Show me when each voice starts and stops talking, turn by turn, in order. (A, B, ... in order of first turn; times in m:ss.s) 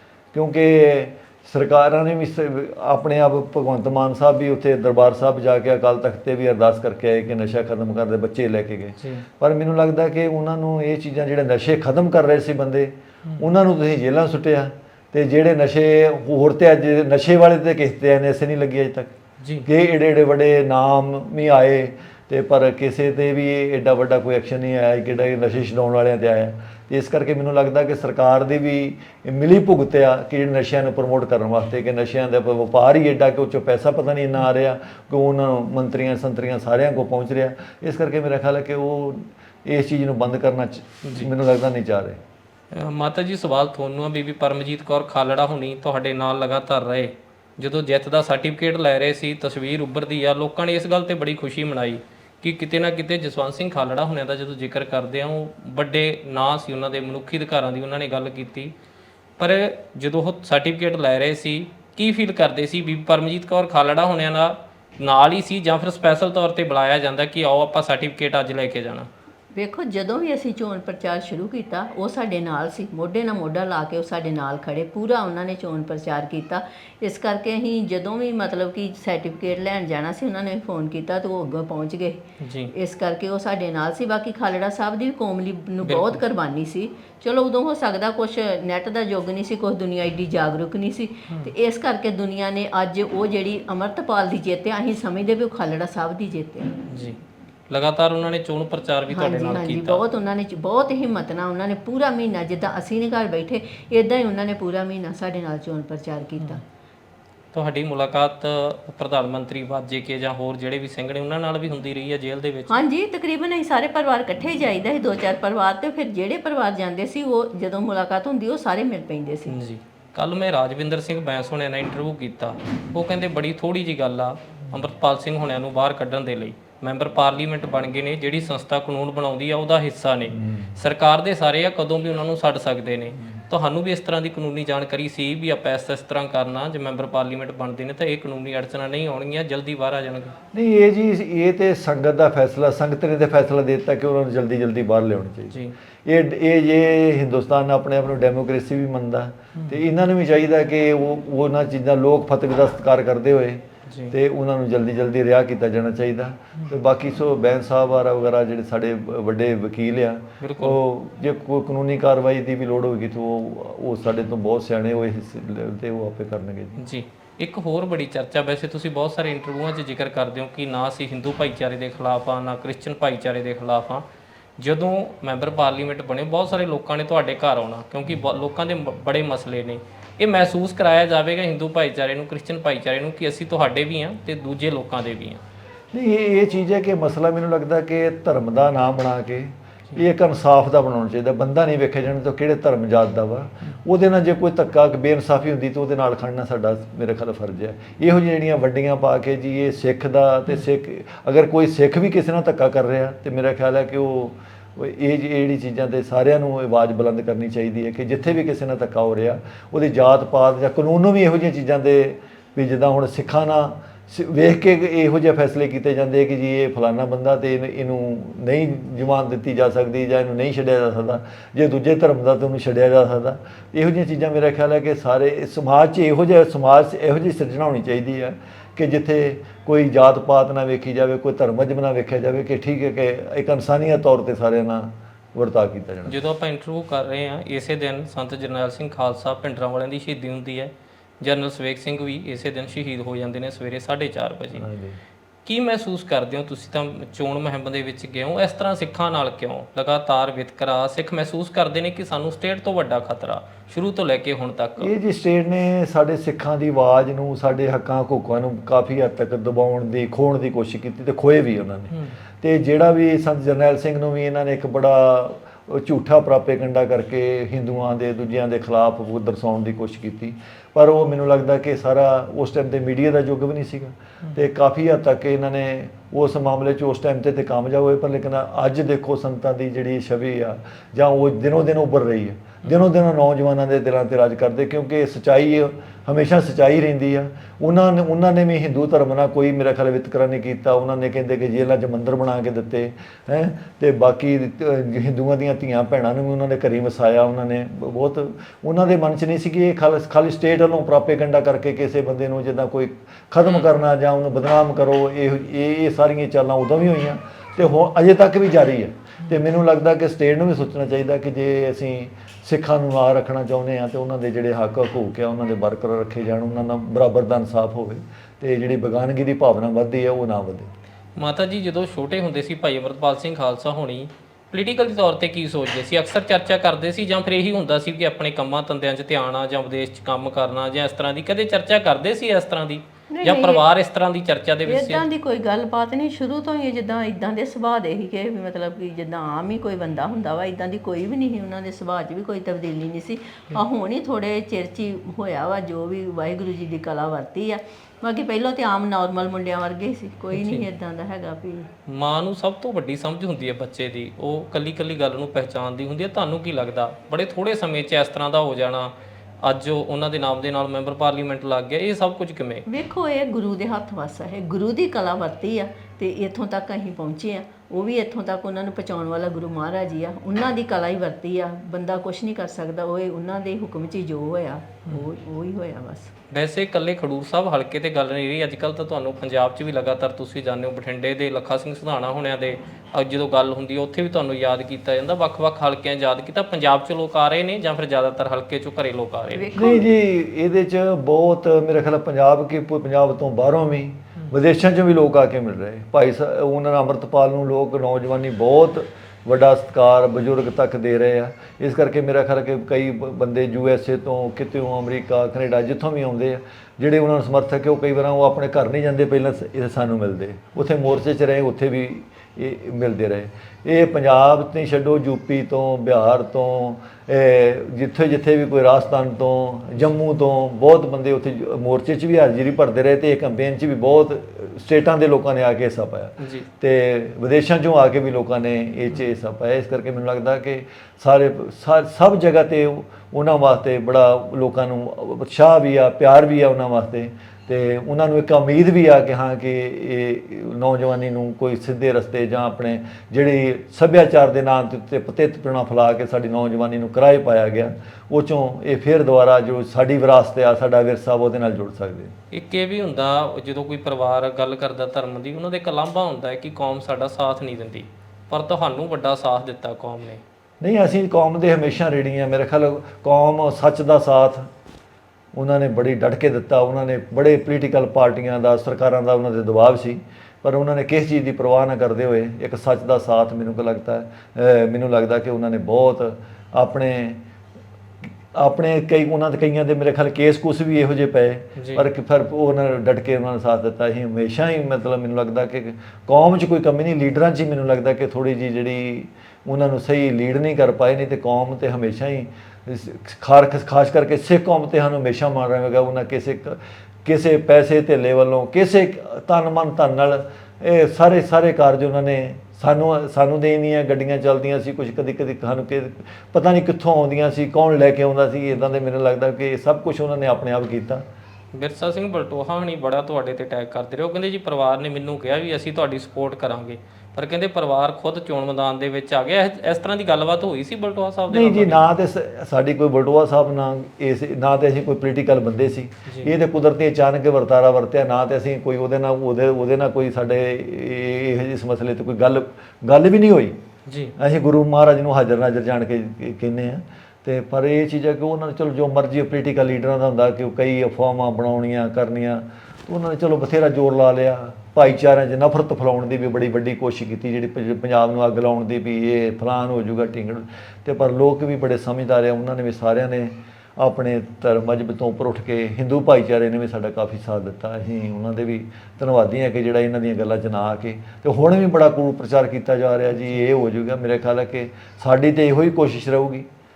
0:00.3-0:19.1 A
0:09.0-0:09.2 B
0:19.4-0:19.7 B
0:19.6-0:42.2 A
0:41.0-0:41.3 B
0:42.7-0:58.7 B
0:59.4-1:09.1 B
1:09.5-1:36.7 C
1:22.4-1:22.7 B
1:25.8-1:26.2 B
1:31.3-1:31.5 B
1:36.9-1:37.2 B
1:37.7-1:40.0 B
1:39.1-1:46.6 C
1:47.5-1:52.8 B
1:52.7-1:59.6 C
1:59.5-2:20.4 B
2:10.3-2:10.7 A
2:20.5-2:46.8 A
2:29.5-2:29.8 B
2:33.9-2:34.1 B
2:40.4-2:40.8 B
2:46.8-2:54.0 B
2:54.6-3:05.4 B
3:05.9-3:56.2 A
3:56.1-4:04.7 B
4:04.5-4:05.0 A
4:05.4-4:14.9 B
4:14.8-5:20.7 A
4:21.9-4:22.1 B
5:21.2-5:35.0 B
5:33.1-5:33.6 C
5:34.6-5:51.7 C
5:50.3-5:50.6 B
5:51.9-6:02.6 B
6:02.6-6:16.1 C
6:16.3-6:29.5 B
6:29.3-6:29.9 C
6:29.6-7:32.2 A
7:06.2-7:06.5 B
7:32.3-7:40.2 B
7:40.6-7:44.5 A
7:45.3-7:57.2 A
7:58.3-8:31.0 A
8:01.6-8:01.8 B
8:31.5-8:41.8 B
8:41.3-8:53.6 A
8:46.1-8:46.3 B
8:53.9-8:54.1 B
8:54.2-9:26.5 A